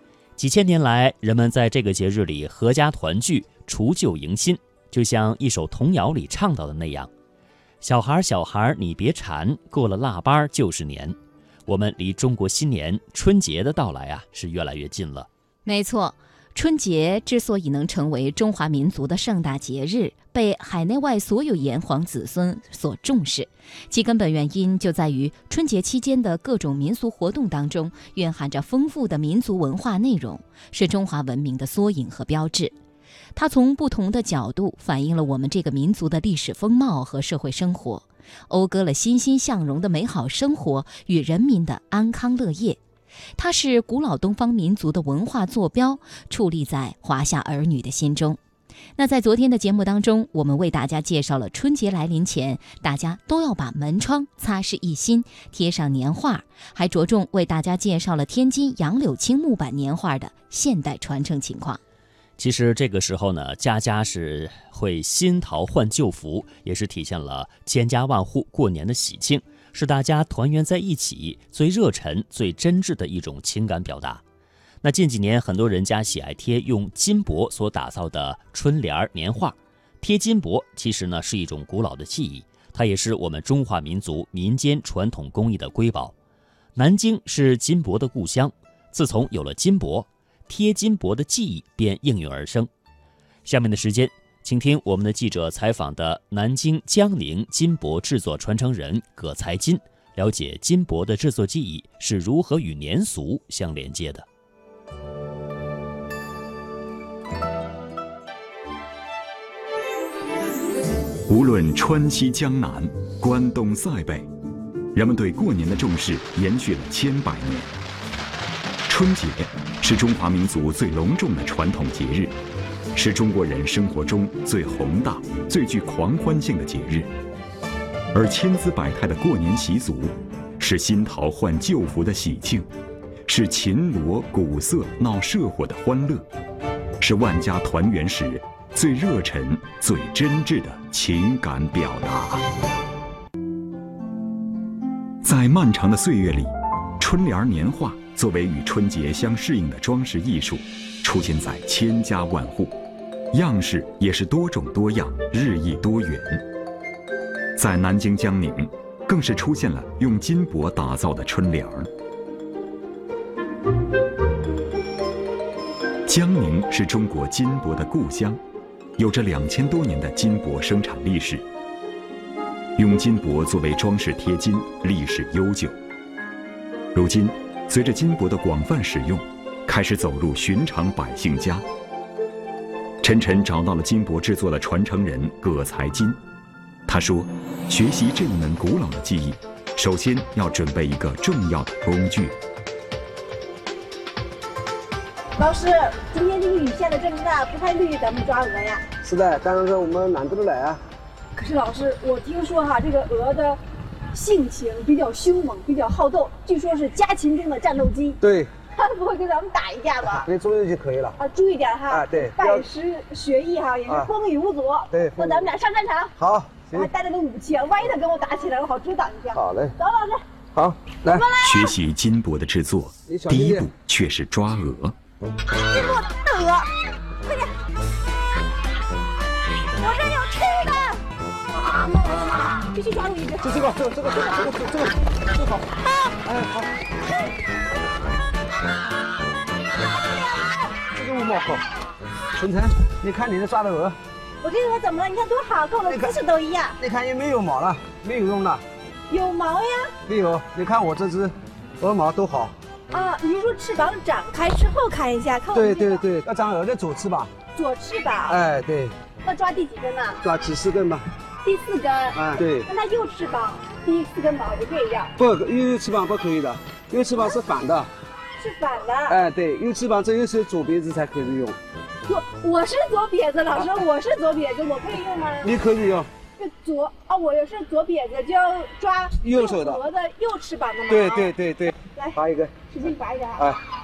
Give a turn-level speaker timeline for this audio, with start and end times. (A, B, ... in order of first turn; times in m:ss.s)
0:00.4-0:07.1 A
0:07.8-0:15.3 A
0:15.6-0:32.7 B
0:33.4-0:42.8 B
0:43.4-0:48.4 B
0:49.0-1:01.8 B
1:02.4-1:14.2 A
1:14.8-1:26.1 A
1:26.7-1:32.7 A
1:33.4-1:44.2 A
1:51.3-1:54.3 C
1:54.9-1:57.7 C
1:58.9-2:02.4 C
2:02.9-2:07.1 C
2:08.1-2:12.7 C
2:13.3-2:16.2 C
2:17.0-2:22.4 C
2:25.2-2:32.8 C
2:33.3-2:36.4 C
2:37.6-2:41.9 C
2:46.1-2:48.4 C
2:49.0-2:51.4 C
2:52.8-2:55.7 C
2:56.9-3:01.6 C
3:03.0-3:06.2 C
3:06.9-3:12.4 C
3:15.4-3:18.8 D
3:19.0-3:20.8 E
3:21.3-3:23.6 D
3:24.1-3:28.2 D
3:28.2-3:28.5 E
3:28.7-3:30.3 D
3:30.1-3:31.2 E
3:31.2-3:36.1 D
3:31.9-3:32.6 E
3:34.9-3:35.4 E
3:36.2-3:36.9 E
3:36.7-3:40.2 D
3:39.3-3:39.8 E
3:40.5-3:41.3 E
3:41.1-3:41.7 D
3:41.4-3:45.0 C
3:43.0-3:43.7 E
3:45.7-3:46.7 D
3:47.2-3:47.5 D
3:49.8-3:51.0 D
3:51.7-3:53.7 D
3:53.4-3:56.7 E
4:00.9-4:01.6 E
4:02.4-4:04.0 E
4:04.4-4:06.8 D
4:05.8-4:06.1 E
4:06.8-4:08.6 E
4:09.1-4:09.9 D
4:10.0-4:12.5 E
4:12.9-4:16.0 D
4:15.5-4:17.3 E
4:17.5-4:18.4 D
4:18.3-4:19.0 E
4:19.2-4:20.2 D
4:20.2-4:21.1 E
4:21.4-4:25.1 D
4:22.1-4:22.7 E
4:25.2-4:27.9 E
4:28.4-4:29.2 D
4:29.1-4:31.6 E
4:32.1-4:35.6 D
4:35.4-4:36.1 E
4:36.4-4:43.5 D
4:39.2-4:39.8 E
4:40.9-4:42.6 E